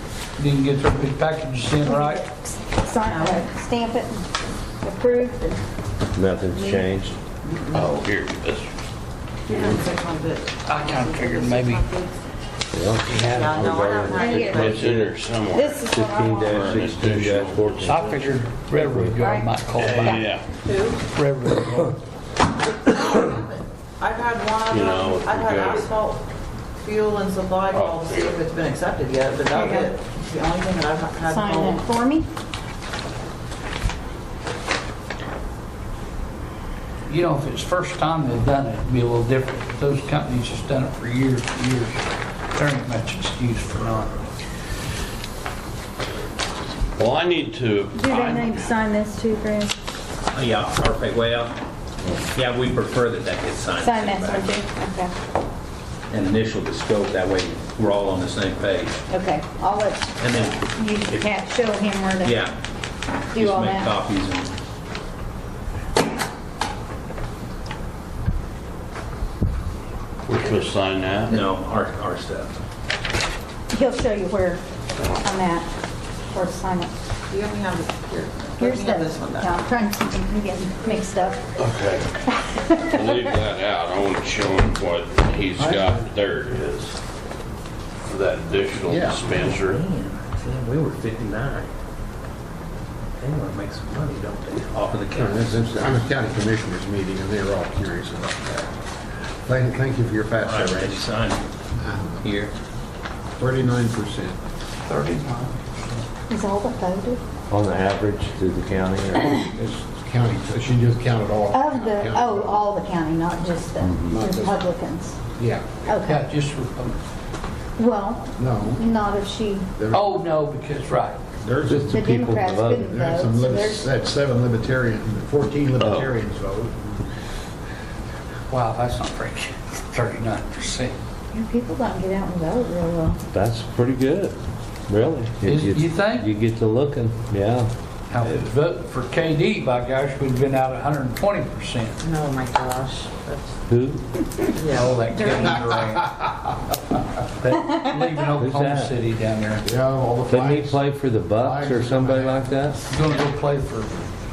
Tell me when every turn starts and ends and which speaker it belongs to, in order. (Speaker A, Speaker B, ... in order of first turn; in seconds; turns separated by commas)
Speaker A: 0.4-2.2, Speaker B: 1.8-4.2, Speaker C: 3.0-3.5, Speaker B: 4.8-5.6, Speaker D: 6.1-7.2, Speaker B: 6.5-6.8, Speaker C: 7.4-8.0, Speaker E: 7.7-8.7, Speaker C: 9.5-12.2, Speaker A: 10.7-11.8, Speaker D: 12.7-15.1, Speaker A: 13.1-13.7, Speaker C: 13.2-15.1, Speaker B: 14.1-14.6, Speaker E: 14.5-15.9, Speaker B: 15.5-16.7, Speaker D: 15.8-19.1, Speaker E: 16.5-18.0, Speaker A: 17.8-20.3, Speaker B: 19.2-20.2, Speaker E: 19.8-20.5, Speaker C: 19.8-21.0, Speaker A: 21.1-22.0, Speaker C: 22.6-26.2, Speaker E: 24.7-25.9, Speaker C: 26.8-31.9, Speaker E: 27.7-28.4, Speaker B: 29.6-29.9, Speaker B: 31.3-32.3, Speaker A: 37.1-42.0, Speaker A: 42.5-44.2, Speaker E: 47.0-48.6, Speaker B: 47.9-49.8, Speaker F: 50.3-51.5, Speaker F: 52.3-54.6, Speaker B: 53.8-55.1, Speaker F: 56.1-59.0, Speaker B: 59.1-62.4, Speaker F: 60.2-61.3, Speaker F: 62.2-62.5, Speaker F: 63.3-64.5, Speaker B: 63.3-64.0, Speaker E: 70.3-71.4, Speaker F: 71.3-72.6, Speaker B: 73.7-75.7, Speaker B: 76.3-76.9, Speaker C: 77.3-79.7, Speaker B: 78.6-81.4, Speaker E: 81.6-82.1, Speaker B: 82.3-83.2, Speaker E: 82.9-87.0, Speaker G: 85.5-86.0, Speaker E: 88.0-89.8, Speaker G: 88.8-89.2, Speaker F: 89.2-91.7, Speaker F: 93.2-96.0, Speaker G: 95.1-98.8, Speaker G: 99.4-101.1, Speaker F: 100.4-101.4, Speaker G: 101.8-102.2, Speaker F: 102.2-102.5, Speaker G: 103.4-104.3, Speaker A: 104.8-105.8, Speaker B: 106.3-107.2, Speaker D: 107.5-109.4, Speaker G: 109.5-112.6, Speaker B: 111.5-115.2, Speaker G: 114.1-114.7, Speaker G: 115.3-115.8, Speaker B: 115.8-116.3, Speaker A: 116.0-117.0, Speaker B: 117.8-119.7, Speaker G: 118.4-118.9, Speaker G: 119.8-120.2, Speaker A: 119.9-121.2, Speaker G: 121.4-122.0, Speaker D: 121.6-122.9, Speaker B: 121.9-123.9, Speaker G: 122.8-127.0, Speaker E: 125.8-126.1, Speaker A: 128.5-130.9, Speaker B: 131.3-133.2, Speaker D: 133.3-134.3, Speaker D: 134.9-137.7, Speaker A: 135.4-136.3, Speaker A: 138.1-142.0, Speaker C: 142.0-143.6, Speaker D: 143.7-144.0, Speaker C: 144.6-145.1, Speaker A: 144.7-146.1, Speaker B: 145.1-145.6, Speaker G: 145.5-146.3, Speaker A: 147.4-149.7, Speaker D: 148.4-148.9, Speaker G: 149.6-152.5, Speaker D: 150.3-152.8, Speaker A: 152.9-154.0